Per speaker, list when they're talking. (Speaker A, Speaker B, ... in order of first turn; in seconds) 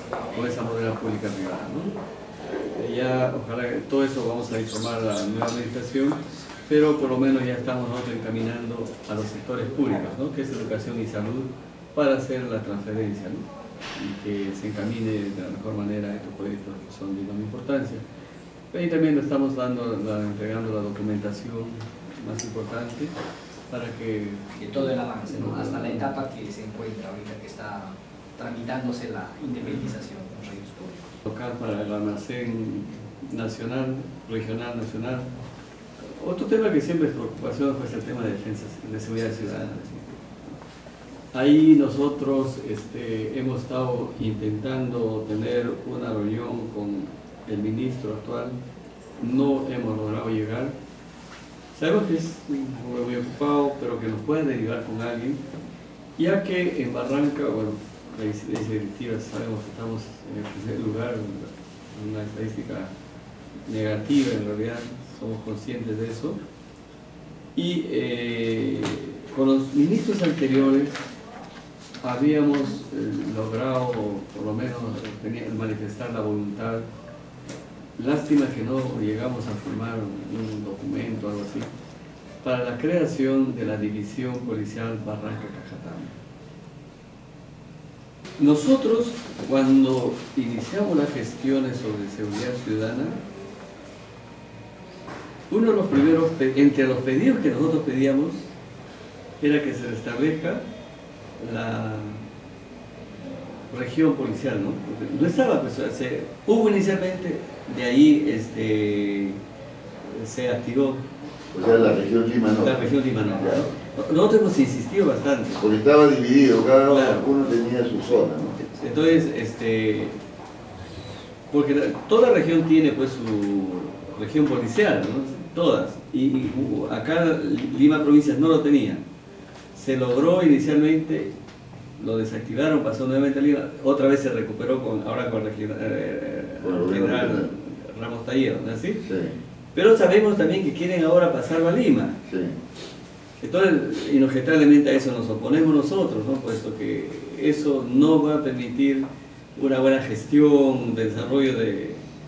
Speaker A: 0.3-2.0, 2.7-18.0, 18.7-23.1, 23.7-26.1, 31.3-35.3, 36.0-40.6, 41.3-48.6, 49.2-50.8, 51.7-55.4, 56.2-62.9, 63.7-66.4, 67.5-71.0, 72.0-76.9, 78.0-81.7, 82.4-86.2, 88.4-93.2, 95.5-98.5, 99.4-100.7, 101.4-102.2, 103.7-109.4, 110.0-111.0, 112.6-115.6, 116.8-117.3, 118.8-120.2, 121.5-129.0, 129.7-131.3, 132.0-139.0, 139.7-142.2, 143.4-152.1
Speaker B: 24.6-31.2
Speaker C: 111.5-113.7, 115.6-118.8, 136.6-137.5, 139.0-139.4, 142.3-142.6